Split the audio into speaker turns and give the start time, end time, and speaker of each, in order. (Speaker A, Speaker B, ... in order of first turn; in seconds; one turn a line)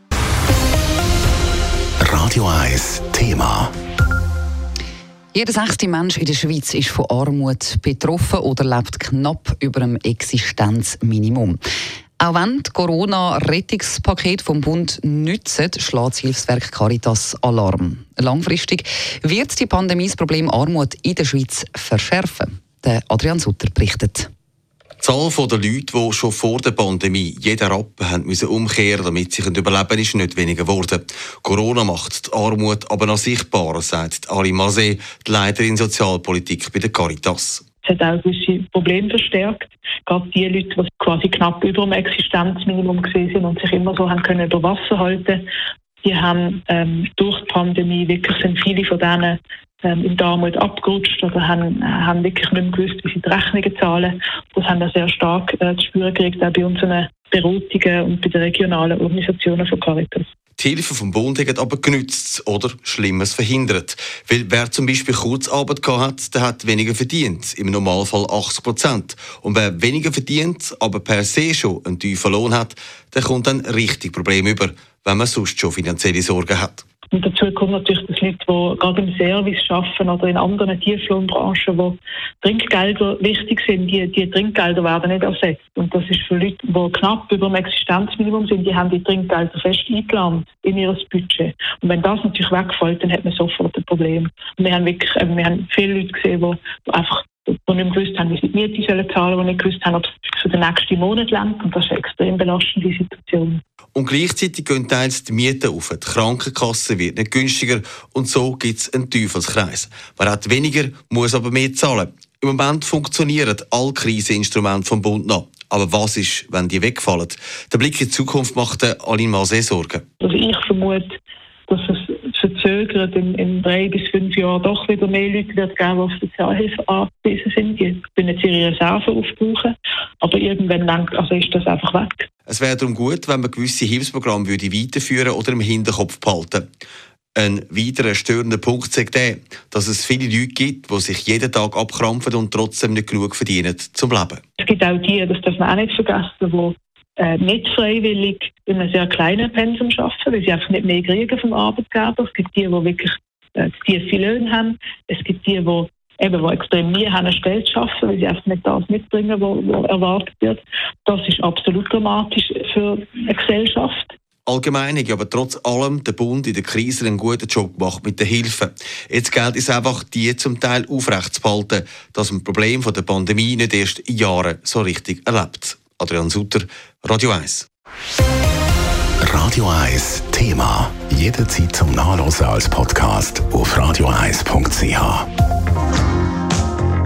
Speaker A: 2.0-3.7
Speaker B: 5.3-11.6
Speaker B: 12.2-24.3
Speaker C: 25.0-37.6
Speaker D: 37.8-45.4
Speaker D: 46.0-60.3
Speaker C: 60.6-76.8
Speaker D: 77.1-103.6
Speaker C: 103.9-120.0
Speaker D: 120.2-121.1
Speaker D: 121.7-132.3
Speaker C: 132.5-136.6
Speaker C: 137.3-144.4
Speaker D: 144.6-164.1
Speaker C: 164.4-177.7
Speaker A: 179.2-185.3